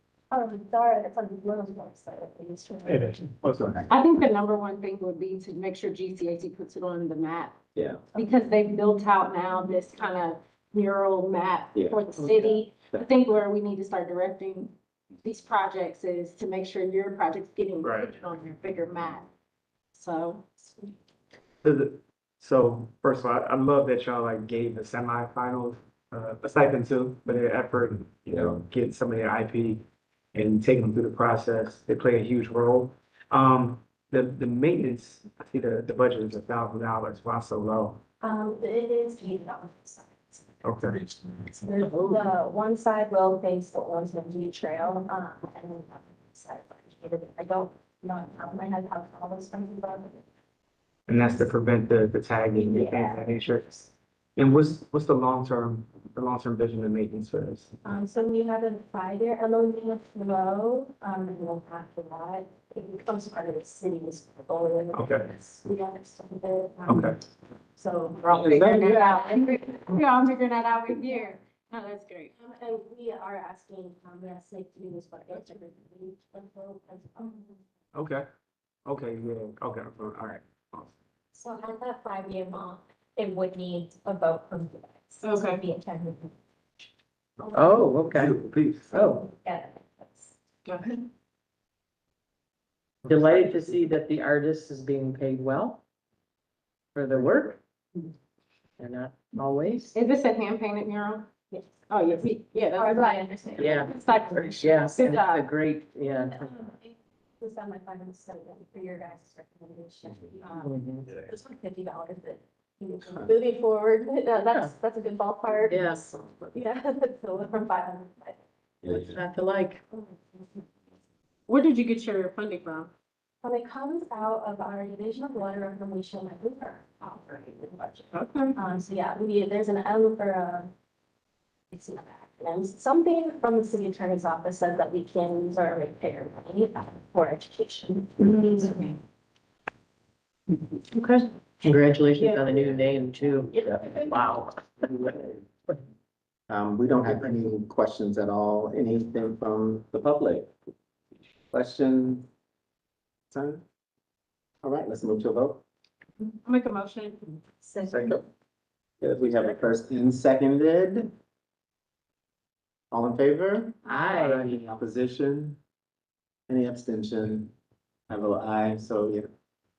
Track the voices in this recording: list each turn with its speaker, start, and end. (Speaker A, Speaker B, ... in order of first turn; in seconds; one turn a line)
Speaker A: 0.3-3.2
Speaker B: 2.8-3.9
Speaker C: 3.9-7.6
Speaker C: 8.1-19.3
Speaker B: 17.8-18.2
Speaker C: 19.9-20.7
Speaker B: 21.6-38.0
Speaker A: 38.2-50.2
Speaker B: 40.6-41.0
Speaker B: 51.1-57.7
Speaker A: 52.5-53.3
Speaker A: 57.8-67.2
Speaker B: 64.9-65.3
Speaker B: 66.9-67.2
Speaker A: 67.8-70.0
Speaker D: 68.3-68.7
Speaker C: 68.3-72.3
Speaker A: 70.9-71.3
Speaker A: 72.4-77.6
Speaker B: 77.9-78.2
Speaker B: 78.8-80.9
Speaker A: 81.3-86.3
Speaker C: 85.2-85.6
Speaker A: 87.4-87.9
Speaker E: 87.5-88.4
Speaker B: 88.1-88.9
Speaker E: 88.9-89.2
Speaker A: 88.9-90.3
Speaker C: 90.7-91.0
Speaker E: 93.0-95.8
Speaker E: 96.9-97.6
Speaker E: 98.8-100.0
Speaker C: 99.9-101.3
Speaker C: 101.9-105.5
Speaker A: 102.8-104.4
Speaker E: 103.6-103.9
Speaker E: 104.6-106.7
Speaker A: 106.2-118.4
Speaker E: 110.6-111.1
Speaker E: 114.4-114.7
Speaker E: 115.7-116.0
Speaker D: 118.8-119.2
Speaker E: 118.9-119.8
Speaker A: 119.9-120.4
Speaker C: 121.5-122.9
Speaker A: 123.4-130.7
Speaker B: 128.1-128.5
Speaker A: 131.7-139.0
Speaker E: 140.9-145.0
Speaker C: 142.2-142.5
Speaker D: 146.5-150.5
Speaker D: 151.5-152.2
Speaker D: 153.3-153.6
Speaker D: 154.6-155.6
Speaker C: 156.4-157.4
Speaker A: 157.6-158.2
Speaker B: 157.9-158.2
Speaker D: 159.0-161.1
Speaker D: 162.9-163.8
Speaker E: 163.9-164.6
Speaker B: 164.2-164.5
Speaker D: 164.5-165.6
Speaker D: 166.5-167.5
Speaker D: 168.1-169.3